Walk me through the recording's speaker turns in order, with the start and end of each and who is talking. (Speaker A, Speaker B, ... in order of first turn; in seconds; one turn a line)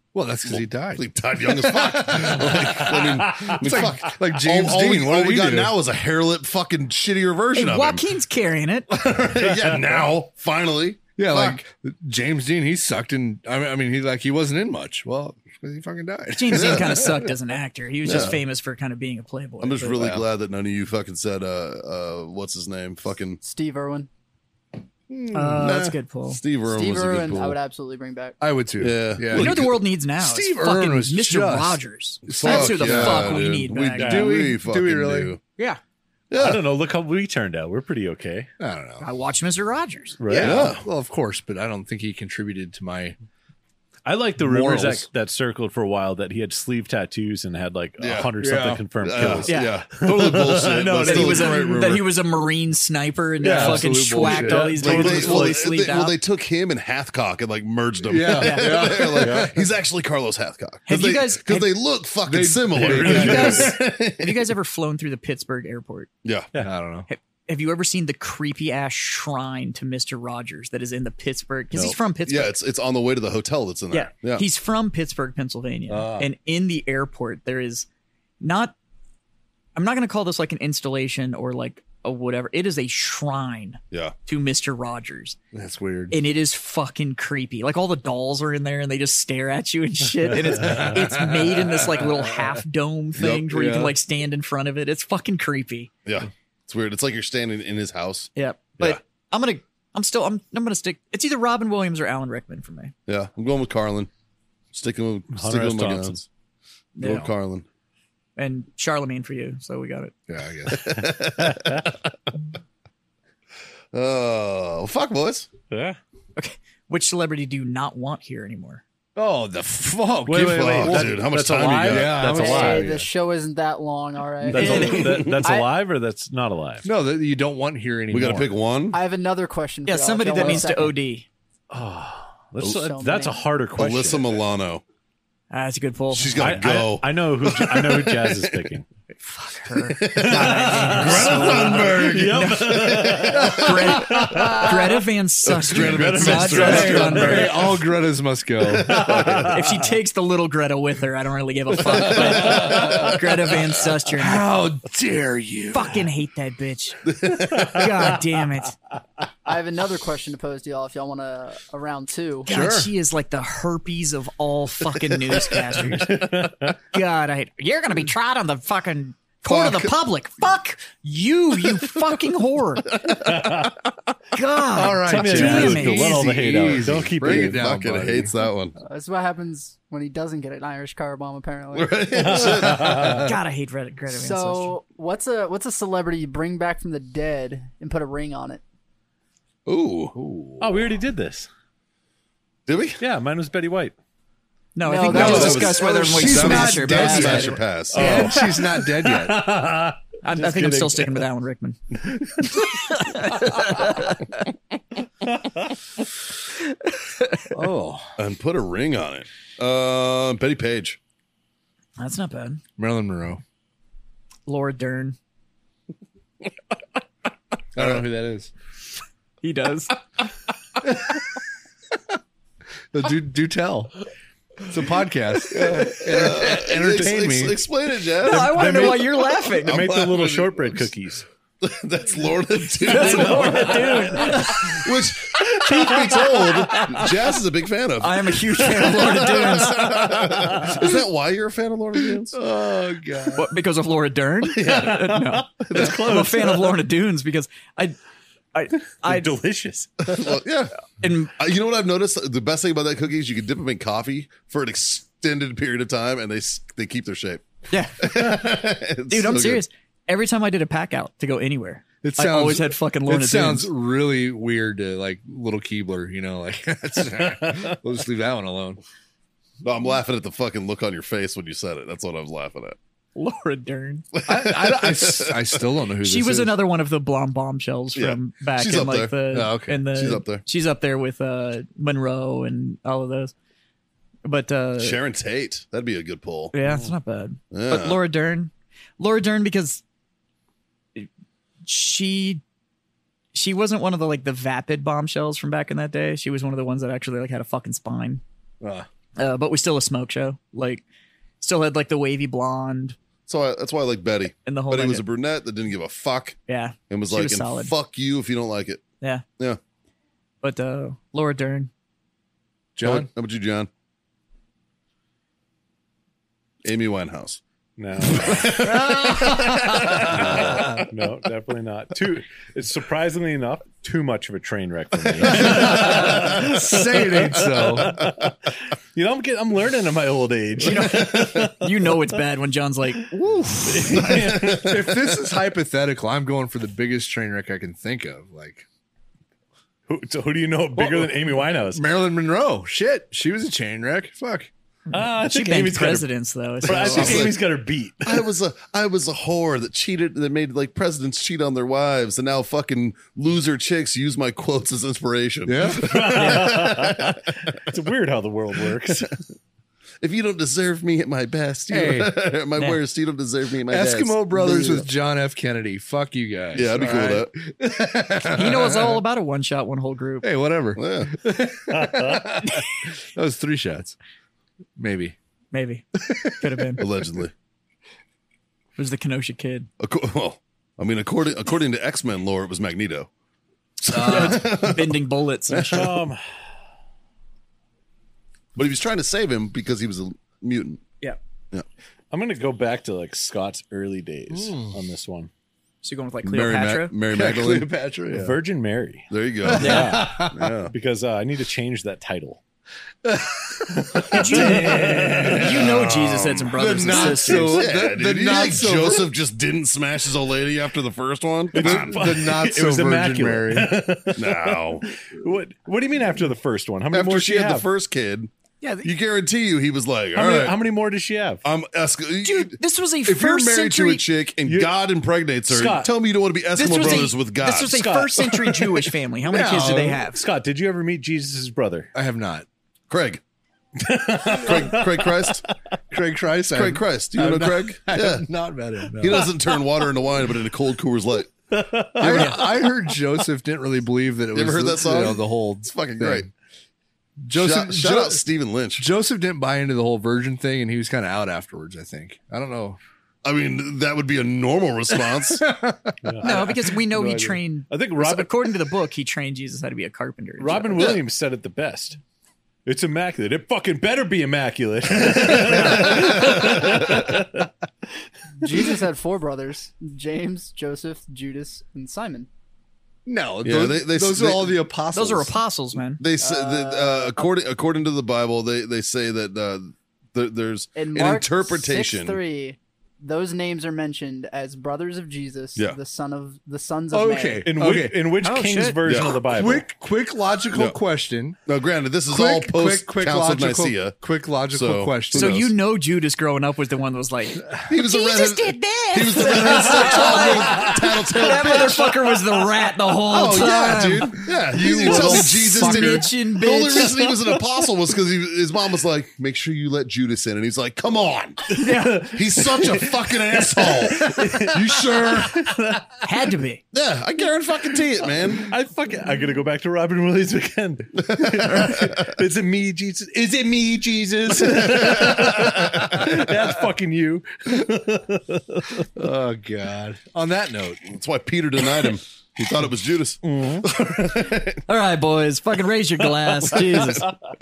Speaker A: 0.1-5.7
Speaker B: 0.5-8.0
Speaker C: 3.0-3.9
Speaker D: 7.5-8.9
Speaker B: 8.9-11.6
Speaker C: 9.4-10.0
Speaker A: 11.2-17.3
Speaker D: 16.3-20.1
Speaker B: 16.5-16.8
Speaker B: 18.0-18.4
Speaker B: 19.6-23.4
Speaker A: 20.0-20.2
Speaker E: 23.4-24.1
Speaker A: 25.1-25.8
Speaker D: 25.3-26.4
Speaker B: 25.6-27.6
Speaker E: 26.7-28.4
Speaker A: 28.4-35.4
Speaker B: 28.8-29.8
Speaker D: 29.3-34.2
Speaker B: 32.3-35.4
Speaker C: 34.0-34.4
Speaker B: 36.3-36.6
Speaker C: 36.4-38.5
Speaker A: 38.6-39.1
Speaker D: 39.0-40.2
Speaker C: 40.2-40.7
Speaker A: 40.3-43.2
Speaker B: 40.3-40.9
Speaker C: 44.0-51.7
Speaker A: 44.4-45.1
Speaker B: 48.0-48.3
Speaker A: 48.4-48.9
Speaker B: 49.0-52.0
Speaker D: 49.5-49.8
Speaker D: 50.7-56.2
Speaker A: 53.4-54.8
Speaker C: 53.4-55.6
Speaker B: 54.8-64.5
Speaker A: 58.0-59.7
Speaker D: 58.3-59.0
Speaker C: 59.2-59.5
Speaker D: 60.9-61.7
Speaker A: 62.2-63.8
Speaker C: 62.8-63.7
Speaker D: 63.0-66.1
Speaker B: 66.2-66.5
Speaker A: 66.6-67.1
Speaker D: 67.1-72.5
Speaker B: 72.3-74.5
Speaker D: 73.9-77.9
Speaker A: 75.9-76.3
Speaker D: 78.4-78.8
Speaker D: 79.8-85.4
Speaker A: 85.5-86.2
Speaker D: 86.1-95.9
Speaker A: 90.6-92.5
Speaker B: 93.2-93.5
Speaker A: 93.5-94.0
Speaker B: 96.0-99.0
Speaker D: 98.4-102.9
Speaker B: 103.1-104.1
Speaker B: 104.7-106.3
Speaker C: 105.3-106.2
Speaker D: 107.0-107.3
Speaker B: 107.0-107.7
Speaker D: 108.4-110.1
Speaker A: 110.3-111.0
Speaker B: 110.7-112.0
Speaker B: 113.9-115.5
Speaker C: 115.7-116.0
Speaker D: 116.4-118.8
Speaker A: 119.2-121.2
Speaker C: 120.3-122.9
Speaker B: 120.3-122.3
Speaker A: 121.8-123.1
Speaker E: 122.3-125.7
Speaker C: 124.5-126.9
Speaker D: 124.5-125.2
Speaker B: 124.7-125.5
Speaker A: 126.8-128.5
Speaker B: 128.1-129.0
Speaker E: 128.9-130.9
Speaker D: 129.9-131.3
Speaker C: 131.7-134.4
Speaker E: 132.8-133.4
Speaker B: 133.8-134.8
Speaker D: 135.5-136.4
Speaker B: 136.1-138.6
Speaker C: 136.4-138.9
Speaker D: 139.2-147.5
Speaker B: 139.9-143.7
Speaker C: 140.0-144.8
Speaker A: 143.4-144.9
Speaker B: 145.5-147.7
Speaker C: 145.7-147.8
Speaker A: 146.5-149.4
Speaker C: 148.6-149.8
Speaker D: 149.3-154.5
Speaker B: 151.9-152.7
Speaker A: 152.1-153.1
Speaker A: 154.2-156.1
Speaker D: 155.7-158.8
Speaker B: 157.1-157.9
Speaker C: 157.6-157.9
Speaker E: 159.4-162.5
Speaker A: 162.5-162.9
Speaker D: 162.5-166.2
Speaker C: 165.9-166.8
Speaker D: 166.9-172.9
Speaker B: 169.5-169.9
Speaker B: 172.9-173.7
Speaker C: 173.2-173.7
Speaker D: 174.3-176.2
Speaker A: 174.7-178.3
Speaker C: 175.1-177.7
Speaker B: 176.8-178.8
Speaker E: 178.8-182.0
Speaker B: 181.7-183.2
Speaker C: 182.2-183.2
Speaker A: 182.8-183.3
Speaker D: 183.1-184.8
Speaker E: 184.1-188.6
Speaker B: 189.7-190.2
Speaker A: 190.2-190.6
Speaker C: 190.6-191.5
Speaker B: 192.7-193.0
Speaker C: 193.0-193.9
Speaker D: 194.8-198.2
Speaker E: 194.8-195.7
Speaker B: 195.1-198.3
Speaker A: 195.1-199.4
Speaker C: 197.9-201.2
Speaker D: 200.2-204.4
Speaker D: 206.7-207.5
Speaker A: 207.5-208.2
Speaker B: 208.2-211.0
Speaker D: 212.0-212.6
Speaker A: 212.8-213.4
Speaker D: 214.5-215.2
Speaker A: 217.7-218.5
Speaker D: 219.4-219.9
Speaker A: 222.9-223.9
Speaker A: 224.7-227.6
Speaker B: 225.6-230.9
Speaker D: 228.2-229.9
Speaker C: 228.2-231.3
Speaker B: 231.6-242.4
Speaker D: 232.8-234.8
Speaker C: 232.9-234.6
Speaker D: 235.7-236.8
Speaker D: 238.0-240.1
Speaker C: 239.8-240.8
Speaker A: 242.3-243.5
Speaker D: 243.3-248.0
Speaker B: 244.6-244.9
Speaker C: 244.6-246.8
Speaker D: 248.5-249.4
Speaker C: 249.0-250.4
Speaker B: 250.1-250.8
Speaker D: 251.0-251.3
Speaker B: 251.3-257.5
Speaker D: 257.7-258.4
Speaker B: 258.0-259.6
Speaker D: 259.1-263.7
Speaker A: 262.0-268.8
Speaker C: 267.4-267.8
Speaker B: 269.6-272.8
Speaker D: 273.1-274.1
Speaker B: 274.1-275.5
Speaker A: 274.3-276.6
Speaker D: 276.0-283.3
Speaker B: 277.9-279.1
Speaker A: 279.3-279.8
Speaker B: 279.9-280.4
Speaker D: 284.2-285.0
Speaker B: 284.8-286.5
Speaker D: 286.5-289.8
Speaker B: 287.5-288.0
Speaker D: 291.6-292.4
Speaker D: 293.3-298.2
Speaker A: 298.6-298.9
Speaker D: 299.2-300.8
Speaker D: 301.4-303.0
Speaker B: 303.3-306.4
Speaker D: 304.4-305.0
Speaker D: 306.5-307.7
Speaker B: 306.9-308.8
Speaker D: 310.4-311.7
Speaker A: 312.8-313.1
Speaker B: 312.8-313.7
Speaker B: 316.6-317.4
Speaker C: 317.8-332.0
Speaker B: 318.1-320.6
Speaker A: 318.8-319.2
Speaker A: 320.1-320.9
Speaker A: 325.2-328.0
Speaker B: 327.9-328.1
Speaker D: 330.6-334.4
Speaker B: 330.8-331.5
Speaker C: 333.6-334.9
Speaker B: 334.0-334.8
Speaker A: 334.4-338.7
Speaker C: 339.9-341.8
Speaker A: 340.8-344.5
Speaker D: 344.9-347.3
Speaker C: 344.9-346.1
Speaker C: 346.6-348.3
Speaker B: 346.7-347.4
Speaker B: 348.0-357.2
Speaker A: 355.5-356.0
Speaker C: 355.7-359.1
Speaker D: 356.2-356.5
Speaker B: 358.9-359.2
Speaker B: 360.0-364.9
Speaker A: 361.7-362.1
Speaker A: 363.7-369.0
Speaker B: 366.5-367.3
Speaker D: 368.2-370.3
Speaker A: 370.2-374.0
Speaker B: 370.8-371.1
Speaker C: 371.7-372.4
Speaker A: 374.8-375.2
Speaker D: 375.5-376.8
Speaker B: 376.8-377.3
Speaker D: 378.8-379.7
Speaker B: 379.8-383.1
Speaker B: 383.8-386.0
Speaker A: 383.9-384.5
Speaker D: 383.9-386.0
Speaker C: 385.6-386.2
Speaker B: 388.6-390.8
Speaker C: 392.1-395.3
Speaker A: 394.3-394.8
Speaker D: 395.8-396.9
Speaker B: 396.2-397.7
Speaker A: 397.1-398.4
Speaker C: 398.1-402.4
Speaker B: 399.1-400.7
Speaker A: 399.4-400.5
Speaker D: 399.6-400.0
Speaker A: 403.1-405.7
Speaker C: 403.8-405.5
Speaker D: 404.1-407.7
Speaker B: 405.1-412.2
Speaker A: 406.5-409.1
Speaker C: 411.5-417.7
Speaker A: 411.6-413.8
Speaker B: 414.1-414.9
Speaker B: 416.9-418.3
Speaker D: 418.6-418.9
Speaker B: 418.8-420.6
Speaker C: 420.1-421.4
Speaker B: 421.4-427.8
Speaker D: 422.2-424.1
Speaker C: 424.4-424.7
Speaker C: 425.5-425.9
Speaker D: 426.6-430.2
Speaker C: 426.8-427.0
Speaker C: 427.7-428.9
Speaker A: 429.3-430.1
Speaker C: 429.8-431.9
Speaker A: 431.9-432.5
Speaker B: 432.9-433.2
Speaker C: 433.8-435.5
Speaker B: 434.1-435.4
Speaker A: 435.9-439.3
Speaker B: 436.5-438.3
Speaker B: 439.0-441.3
Speaker C: 441.5-442.7
Speaker A: 442.0-446.3
Speaker B: 444.3-446.3
Speaker A: 447.2-448.2
Speaker B: 447.3-448.9
Speaker A: 448.8-452.8
Speaker B: 453.2-455.5
Speaker A: 455.1-456.5
Speaker C: 456.0-458.5
Speaker D: 456.2-460.9
Speaker C: 460.4-462.0
Speaker C: 462.7-467.5
Speaker A: 465.5-466.9
Speaker B: 465.6-467.1
Speaker E: 468.4-472.3
Speaker A: 473.1-475.4
Speaker B: 473.4-474.6
Speaker D: 474.9-476.0
Speaker B: 476.0-482.2
Speaker E: 476.2-477.3
Speaker E: 480.8-487.5
Speaker A: 486.9-488.0
Speaker C: 487.5-489.7
Speaker D: 488.2-488.8
Speaker B: 488.9-489.2
Speaker A: 489.3-491.4
Speaker B: 491.5-493.9
Speaker A: 492.1-495.4
Speaker B: 494.5-495.5
Speaker D: 495.1-507.0
Speaker B: 497.7-502.0
Speaker C: 499.4-500.7
Speaker B: 503.1-515.5
Speaker A: 504.2-506.1
Speaker C: 506.8-507.1
Speaker D: 511.5-512.2
Speaker C: 511.7-516.0
Speaker D: 516.0-516.6
Speaker B: 516.7-518.5
Speaker C: 518.4-528.9
Speaker B: 521.1-522.0
Speaker B: 524.4-526.2
Speaker A: 529.0-530.9
Speaker B: 530.9-534.6
Speaker C: 533.2-533.7
Speaker D: 534.7-537.1
Speaker B: 536.4-537.1